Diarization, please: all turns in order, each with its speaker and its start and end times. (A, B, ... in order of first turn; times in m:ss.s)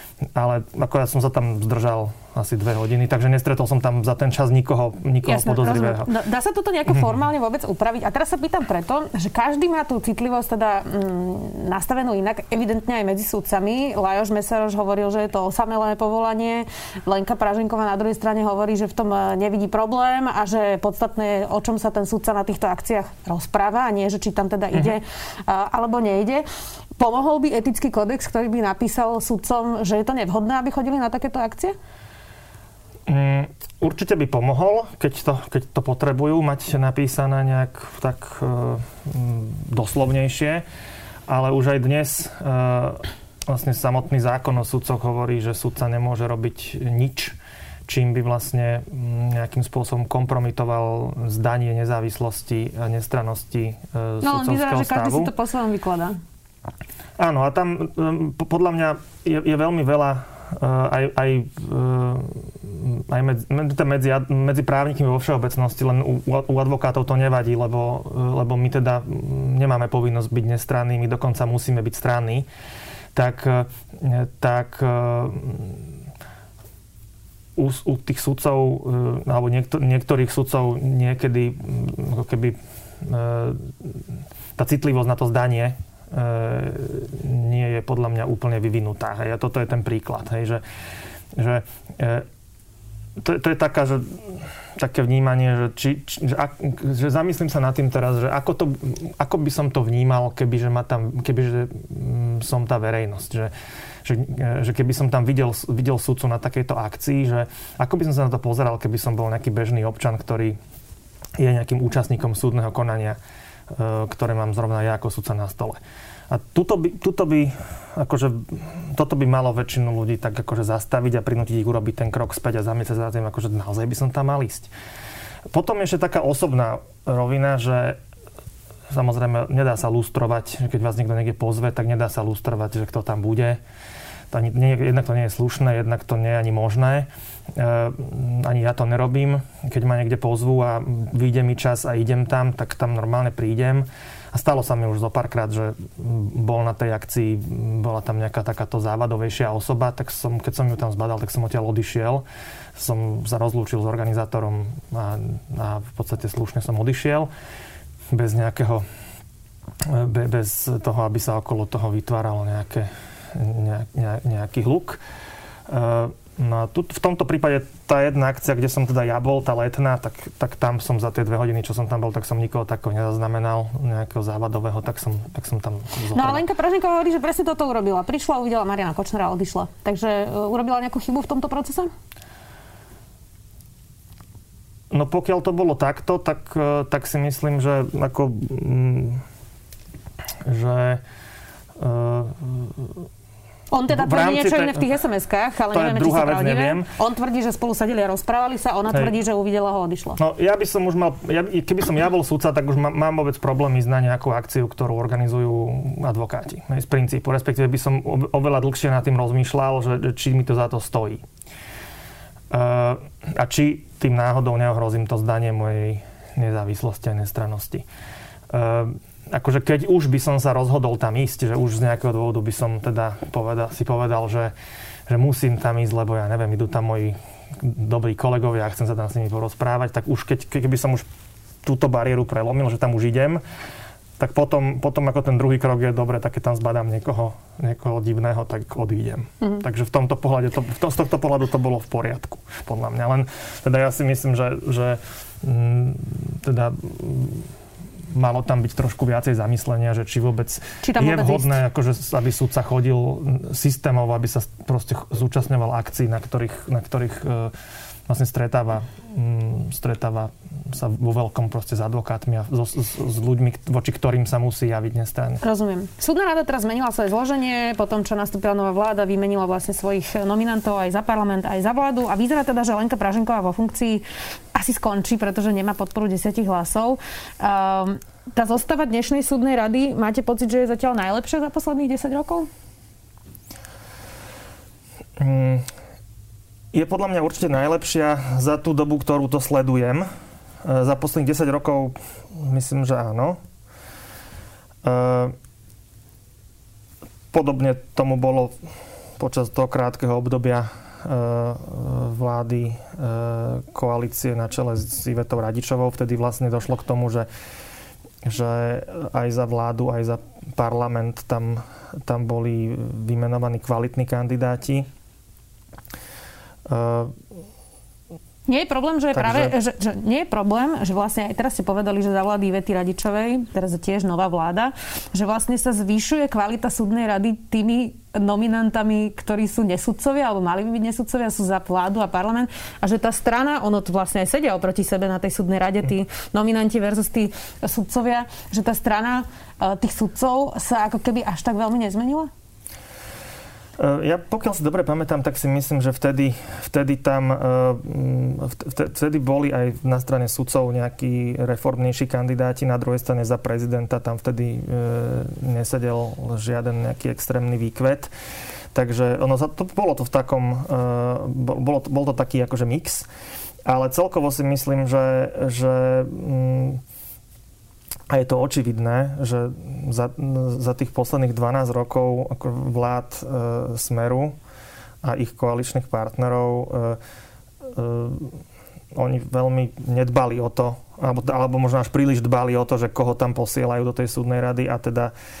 0:00.3-0:06.1 A
0:05.2-0:26.4 B
0:27.0-0:31.8 B
0:33.1-0:40.6 A
0:41.3-0:47.4 A
0:47.9-0:55.3 A
0:54.2-0:56.2 B
0:57.2-1:12.5 A
1:13.1-1:15.9 A
1:17.6-1:24.0 A
1:24.6-1:30.6 A
1:31.3-1:32.3 A
1:33.2-1:43.5 A
1:44.0-1:50.6 A
1:51.4-1:53.2 A
1:53.7-2:04.7 A
2:05.5-2:08.0 A
2:08.9-2:13.6 A
2:14.3-2:32.2 A
2:32.8-2:37.3 A
2:38.1-2:38.8 A
2:39.8-2:45.0 A
2:45.7-2:56.4 A
2:56.1-3:01.9 B
3:04.9-3:09.2 A
3:10.4-3:11.0 A
3:11.8-3:13.0 A
3:13.7-3:20.2 B
3:13.9-3:14.8 A
3:15.7-3:16.9 A
3:20.2-3:31.2 A
3:32.5-3:37.8 A
3:38.5-3:44.5 A
3:45.1-3:51.0 A
3:51.6-3:53.4 A
3:54.2-4:07.5 A
4:08.1-4:17.5 A
4:10.8-4:11.6 B
4:18.1-4:25.4 A
4:25.4-4:42.5 B
4:45.2-4:45.7 A
4:46.7-4:50.1 A
4:50.6-4:53.4 A
4:54.8-4:55.3 A
4:57.3-4:58.5 A
4:59.2-5:07.3 A
5:08.2-5:14.9 A
5:16.6-5:17.1 A
5:18.5-5:42.3 B
5:19.1-5:19.5 A
5:43.8-5:58.1 A
5:58.7-6:03.1 A
6:03.6-6:06.8 A
6:08.1-6:14.3 A
6:15.0-6:17.0 A
6:17.6-6:18.4 A
6:18.9-6:25.1 A